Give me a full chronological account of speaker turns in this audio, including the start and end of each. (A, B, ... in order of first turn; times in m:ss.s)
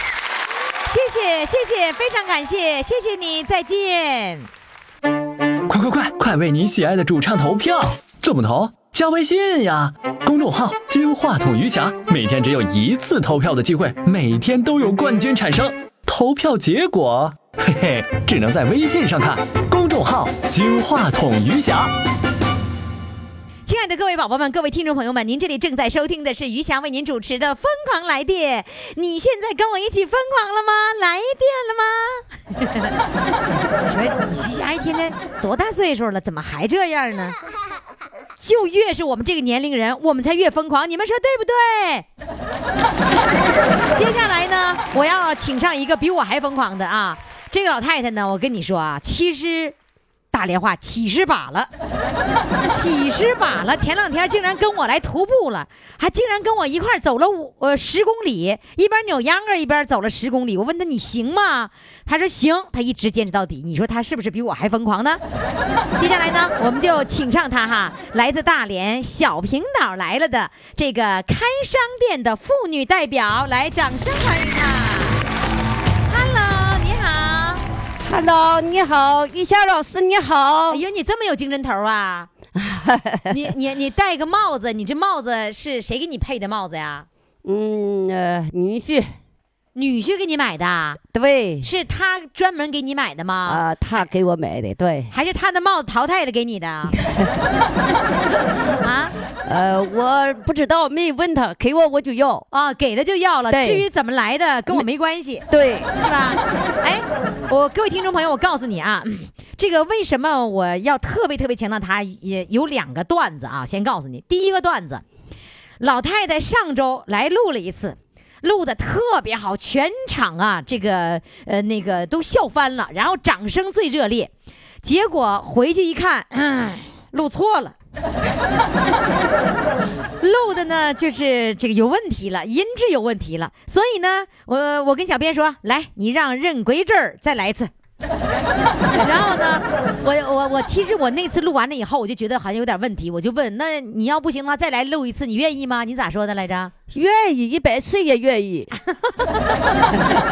0:00.8-0:04.5 A
0:05.7-0:21.9 B
0:23.6-0:32.9 A
0:33.6-0:37.4 A
0:38.4-0:42.0 A
0:43.9-0:49.7 A
0:50.3-0:51.7 A
0:52.6-1:05.2 A
1:06.0-1:15.2 A
1:16.1-1:17.6 A
1:18.0-1:20.8 C
1:20.7-1:22.3 A
1:22.6-1:23.3 C
1:23.3-1:27.0 A
1:27.4-1:29.1 C
1:29.7-1:31.0 A
1:31.1-1:31.7 C
1:31.6-1:33.6 A
1:33.4-1:35.1 C
1:35.1-1:36.9 A
1:36.9-1:37.4 C
1:38.8-1:39.1 A
1:39.4-1:42.4 C
1:42.5-1:45.4 A
1:43.5-1:43.8 C
1:45.5-1:45.9 C
1:46.0-1:55.0 A
1:55.8-2:04.3 A
2:04.8-2:07.7 A
2:10.2-2:17.7 A
2:19.0-2:26.7 A
2:26.9-2:28.7 C
2:28.9-2:30.1 A